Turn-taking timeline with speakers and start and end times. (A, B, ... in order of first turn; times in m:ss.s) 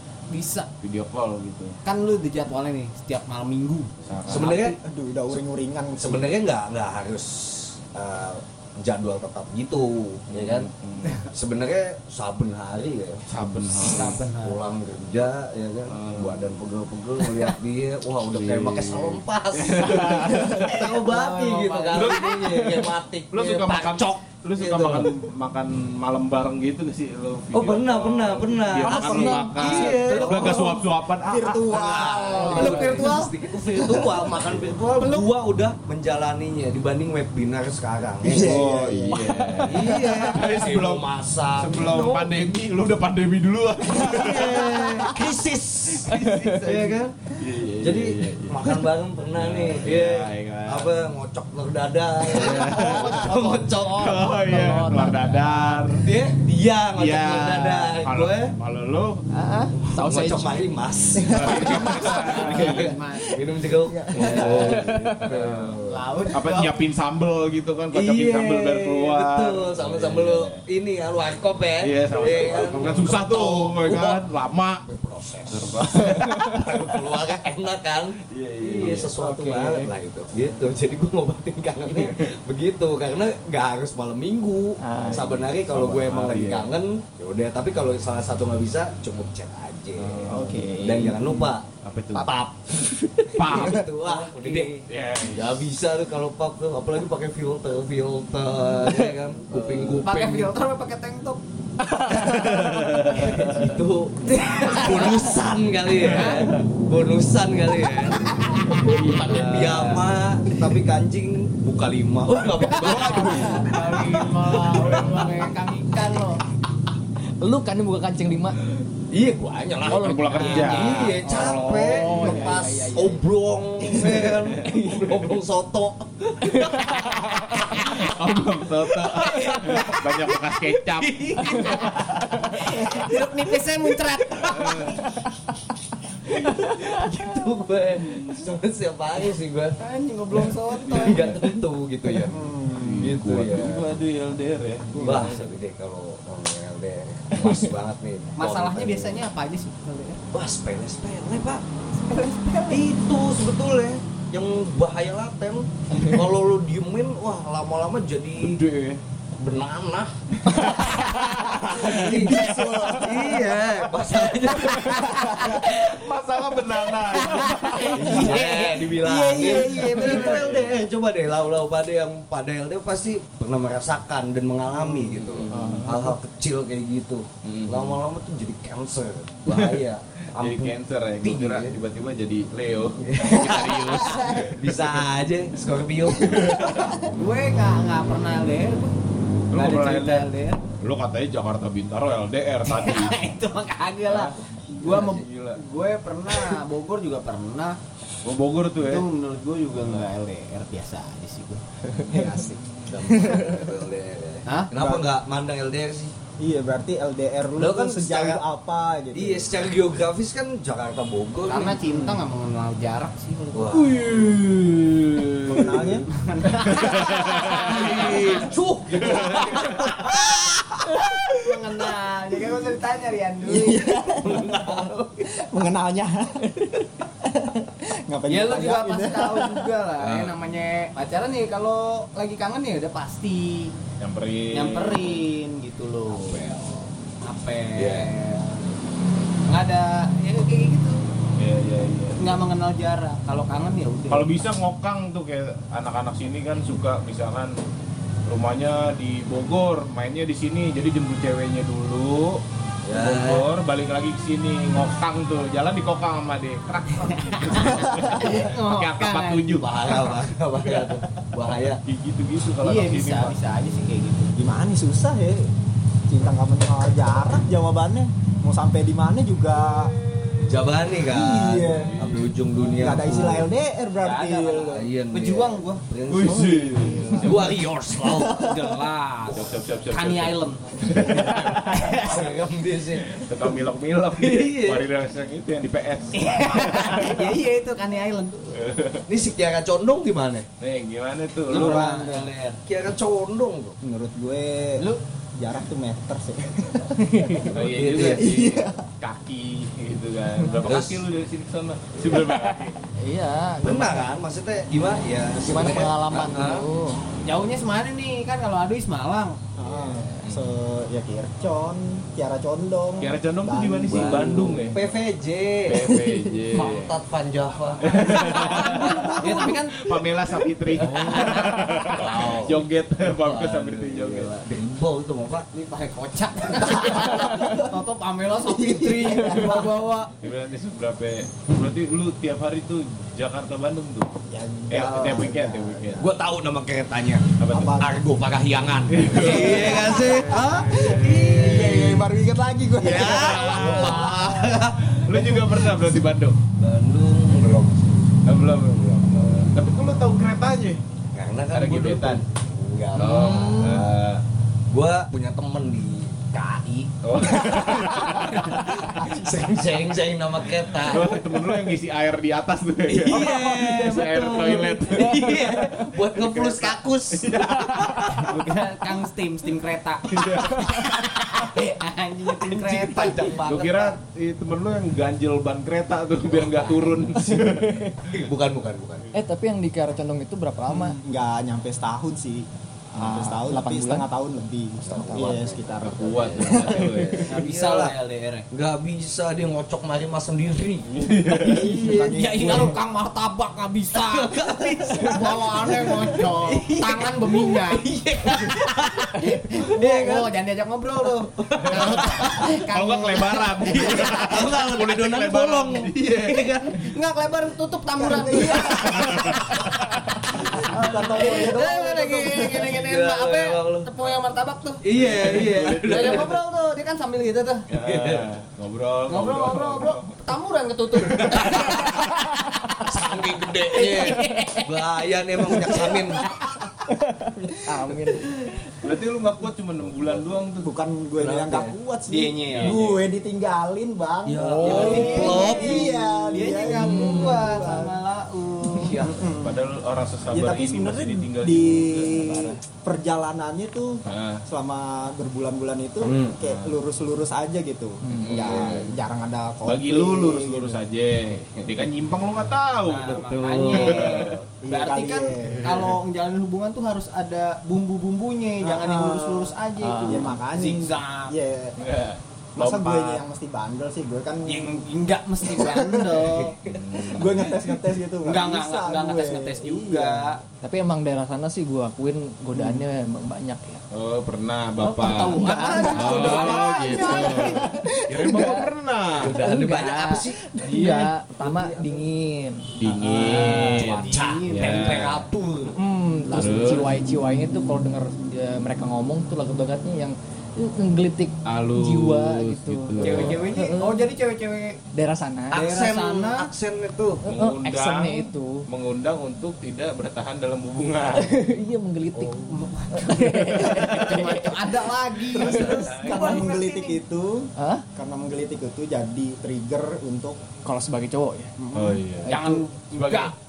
0:00.3-0:00.7 A
0:00.8-0:01.8 B
0:01.8-0:04.6 A
0:04.0-0:04.6 B
0:04.2-0:04.8 C
0:04.6-0:06.3 D
0:06.0-0:10.7 C
0:10.3-0:11.2 B
0:11.2-0:13.2 C
0:13.3-0:14.2 B
0:13.8-0:14.6 A
0:13.8-0:25.2 C
0:15.9-0:16.6 B
0:18.2-0:20.9 B
0:21.0-0:22.3 A
0:21.9-0:33.1 B
0:27.5-0:30.8 C
0:28.9-0:29.9 E
0:29.9-0:33.0 D
0:31.7-0:38.6 C
0:32.3-0:33.4 A
0:32.4-0:32.7 E
0:33.7-0:34.3 D
0:34.4-0:34.7 B
0:38.2-0:39.7 D
0:38.3-0:45.3 B
0:39.1-0:40.1 E
0:39.6-0:42.3 C
0:43.9-0:54.4 C
0:45.9-0:48.8 B
0:46.1-0:46.6 E
0:49.3-0:51.1 B
0:52.2-0:56.1 B
0:52.3-0:54.2 A
0:54.4-0:55.9 E
0:55.9-0:58.5 C
0:56.9-0:59.2 B
0:59.3-1:00.7 E
0:59.8-1:06.2 C
1:00.0-1:00.4 B
1:01.2-1:02.1 D
1:01.3-1:03.0 B
1:02.3-1:03.4 A
1:03.8-1:04.6 D
1:04.1-1:05.8 B
1:04.6-1:05.2 E
1:05.8-1:06.8 A
1:06.3-1:10.6 B
1:07.9-1:14.3 C
1:11.8-1:14.8 B
1:12.3-1:13.0 A
1:14.8-1:40.5 C
1:15.5-1:16.7 B
1:16.2-1:16.5 E
1:18.3-1:19.8 B
1:19.2-1:19.8 E
1:21.9-1:22.2 B
1:24.8-1:25.3 E
1:24.9-1:26.7 B
1:30.0-1:32.3 B
1:30.3-1:31.4 E
1:30.3-1:30.6 D
1:33.2-1:34.8 E
1:33.4-1:33.9 B
1:34.8-1:35.7 B
1:39.5-1:40.1 B
1:40.0-1:41.4 A
1:41.8-1:42.7 E
1:42.1-1:43.8 B
1:43.0-1:44.2 C
1:44.2-1:45.4 A
1:44.7-1:54.3 C
1:45.9-1:46.6 B
1:46.0-1:46.5 A
1:48.7-1:50.0 A
1:48.8-1:50.0 B
1:52.7-1:56.4 A
1:52.9-1:53.5 B
1:54.8-1:55.3 B
1:57.4-1:58.6 E
1:59.1-2:08.3 C
1:59.8-2:02.5 B
1:59.9-2:03.2 E
1:59.9-2:02.6 A
2:04.2-2:05.1 B
2:04.6-2:05.0 E
2:07.0-2:11.8 B
2:08.8-2:10.4 C
2:09.7-2:10.0 A
2:11.0-2:13.1 C
2:11.1-2:15.1 A
2:14.3-2:14.8 C
2:14.4-2:15.0 B
2:16.3-2:19.8 C
2:19.8-2:21.5 A
2:20.4-2:24.0 C
2:20.8-2:21.4 B
2:22.3-2:23.1 D
2:22.7-2:25.5 B
2:25.0-2:25.3 E
2:25.0-2:29.2 C
2:28.4-2:30.2 A
2:30.3-2:31.6 C
2:32.1-2:32.8 A
2:32.1-2:32.7 E
2:32.7-2:38.6 C
2:38.4-2:39.0 B
2:39.4-2:45.9 C
2:40.7-2:42.5 B
2:41.7-2:43.5 D
2:44.6-2:48.5 B
2:44.7-2:45.2 A
2:45.1-2:45.6 D
2:47.0-2:50.5 A
2:47.9-3:01.8 C
2:49.5-2:50.8 B
2:54.7-2:56.1 B
2:55.5-2:56.1 E
2:57.4-2:58.0 B
2:59.5-2:59.8 B
3:00.4-3:05.0 B
3:03.0-3:07.0 C
3:06.3-3:06.9 B
3:07.1-3:08.9 A
3:09.5-3:10.3 B
3:09.5-3:10.6 A
3:10.8-3:13.2 B
3:12.6-3:17.8 A
3:14.1-3:15.6 B
3:14.8-3:15.2 C
3:18.2-3:19.0 B
3:18.8-3:22.7 A
3:19.7-3:20.1 B
3:22.8-3:26.2 C
3:23.2-3:23.6 E
3:24.4-3:24.7 A
3:24.7-3:25.1 D
3:26.4-3:29.6 D
3:27.6-3:28.4 C
3:29.1-3:31.8 C
3:31.5-3:34.1 A
3:33.5-3:36.0 C
3:34.0-3:34.4 B
3:35.4-3:36.1 D
3:36.1-3:40.1 A
3:36.6-3:39.9 B
3:36.7-3:41.6 C
3:41.3-3:44.8 A
3:43.4-3:44.5 D
3:44.1-3:45.2 C
3:45.2-3:49.7 D
3:48.3-3:53.8 A
3:50.0-3:50.3 C
3:54.0-3:55.2 B
3:54.5-3:56.5 A
3:56.1-3:56.9 C
3:57.2-3:58.7 A
3:57.7-3:58.1 C
3:59.5-4:01.1 A
4:01.4-4:02.3 B
4:02.2-4:04.4 A
4:04.1-4:07.6 B
4:08.2-4:20.9 B
4:12.8-4:13.5 C
4:17.1-4:19.5 A
4:19.5-4:21.8 C
4:21.8-4:23.4 B
4:22.6-4:24.3 A
4:24.3-4:25.5 D
4:26.1-4:29.9 D
4:30.4-4:33.5 C
4:31.0-4:32.0 D
4:31.9-4:32.3 B
4:32.7-4:34.9 D
4:34.0-4:37.3 A
4:34.7-4:38.6 C
4:36.1-4:37.6 B
4:38.0-4:38.3 D
4:38.2-4:42.3 A
4:39.2-4:41.9 B
4:40.8-4:43.5 C
4:43.0-4:47.2 B
4:44.1-4:44.9 C
4:46.1-4:48.6 A
4:48.5-4:49.0 B
4:49.1-4:50.5 C
4:50.6-4:51.9 B
4:51.5-4:52.6 A
4:51.5-4:53.8 C
4:53.8-4:57.3 D
4:57.1-4:57.4 E
4:57.4-5:02.8 B
4:57.4-4:58.3 C
4:58.1-4:58.8 D
5:00.5-5:01.0 C
5:02.1-5:04.2 E
5:03.6-5:06.6 C
5:05.4-5:07.0 E
5:07.2-5:09.4 A
5:09.6-5:14.8 D
5:09.6-5:10.1 C
5:10.2-5:10.5 B
5:13.0-5:14.8 B
5:13.9-5:15.9 C
5:15.6-5:16.9 B
5:16.5-5:19.2 C
5:17.8-5:24.4 B
5:17.9-5:19.9 A
5:18.8-5:19.1 D
5:20.8-5:25.5 C
5:20.8-5:21.6 A
5:25.5-5:30.1 A
5:26.8-5:27.7 D
5:28.4-5:29.7 D
5:30.2-5:34.1 B
5:34.3-5:36.1 D
5:34.7-5:36.1 B
5:36.0-5:42.1 C
5:37.4-5:37.9 B
5:37.5-5:38.0 D
5:38.9-5:41.8 B
5:39.3-5:39.6 D
5:40.3-5:44.3 D
5:42.8-5:45.5 C
5:42.8-5:46.4 B
5:46.6-5:49.5 C
5:48.2-5:50.8 B
5:51.1-5:54.0 C
5:51.5-5:52.2 B
5:52.9-5:54.2 B
5:53.0-5:53.8 E
5:54.7-6:01.4 C
5:57.0-5:58.6 B
6:00.6-6:08.3 B
6:02.9-6:08.3 C
6:08.1-6:13.5 A
6:10.1-6:10.8 B
6:12.4-6:14.0 C
6:13.4-6:18.2 B
6:16.2-6:17.4 C
6:17.3-6:18.0 E
6:18.0-6:19.1 C
6:19.1-6:21.0 E
6:20.7-6:27.2 D
6:22.9-6:24.1 E
6:24.8-6:25.4 E
6:24.8-6:28.0 C
6:25.8-6:27.3 B
6:27.2-6:28.4 A
6:28.5-6:32.7 C
6:30.9-6:31.6 B
6:31.4-6:32.8 D
6:31.4-6:44.2 A
6:33.9-6:40.3 C
6:41.1-6:42.5 C
6:41.6-6:46.9 B
6:43.7-6:46.8 C
6:46.7-6:49.6 A
6:48.0-6:49.2 D
6:48.6-6:49.7 B
6:50.6-6:53.9 C
6:50.6-6:52.6 D
6:50.6-6:57.6 A
6:54.8-6:56.4 C
6:54.9-6:56.4 B
6:57.7-7:00.1 B
6:57.8-6:58.3 C
6:59.1-7:02.0 A
7:00.9-7:01.9 B
7:01.2-7:02.0 C
7:01.9-7:02.8 E
7:02.8-7:06.2 C
7:03.7-7:04.7 A
7:06.9-7:08.4 E
7:08.8-7:10.7 B
7:09.8-7:10.4 C
7:10.6-7:18.0 D
7:11.2-7:11.7 C
7:12.1-7:12.9 A
7:14.2-7:16.1 C
7:14.4-7:15.5 E
7:14.6-7:19.1 A
7:16.8-7:17.3 E
7:18.8-7:19.2 C
7:19.0-7:19.6 D
7:19.4-7:22.6 B
7:20.3-7:30.8 D
7:24.0-7:24.4 B
7:26.0-7:26.4 C
7:26.4-7:26.8 B
7:28.0-7:28.4 E
7:28.1-7:28.9 B
7:28.4-7:28.9 C
7:29.6-7:34.4 B
7:32.8-7:41.3 A
7:33.1-7:34.4 C
7:34.6-7:35.7 D
7:38.6-7:41.8 D
7:39.8-7:40.3 E
7:41.8-7:43.2 B
7:42.6-7:44.9 D
7:44.4-7:46.6 A
7:45.4-7:46.3 D
7:46.4-7:46.7 C
7:46.7-7:47.6 B
7:47.1-7:50.3 D
7:48.2-7:50.4 A
7:50.6-7:53.8 E
7:53.9-7:59.4 B
7:54.8-7:57.6 A
7:55.4-7:58.7 E
7:55.5-7:57.1 C
7:59.2-8:02.0 C
7:59.4-8:03.8 E
8:02.8-8:05.2 B
8:02.8-8:05.2 A
8:03.2-8:05.8 C
8:05.7-8:14.0 E
8:06.3-8:06.6 C
8:06.3-8:06.9 B
8:11.4-8:13.5 B
8:13.0-8:14.8 A
8:14.9-8:15.6 E
8:15.5-8:17.2 C
8:15.5-8:16.5 A
8:17.2-8:18.6 E
8:17.2-8:21.4 B
8:21.2-8:24.5 E
8:22.4-8:25.9 A
8:23.6-8:24.4 B
8:25.4-8:27.0 C
8:25.4-8:30.4 D
8:27.6-8:27.8 E
8:30.6-8:31.5 E
8:31.6-8:33.3 A
8:31.7-8:33.3 B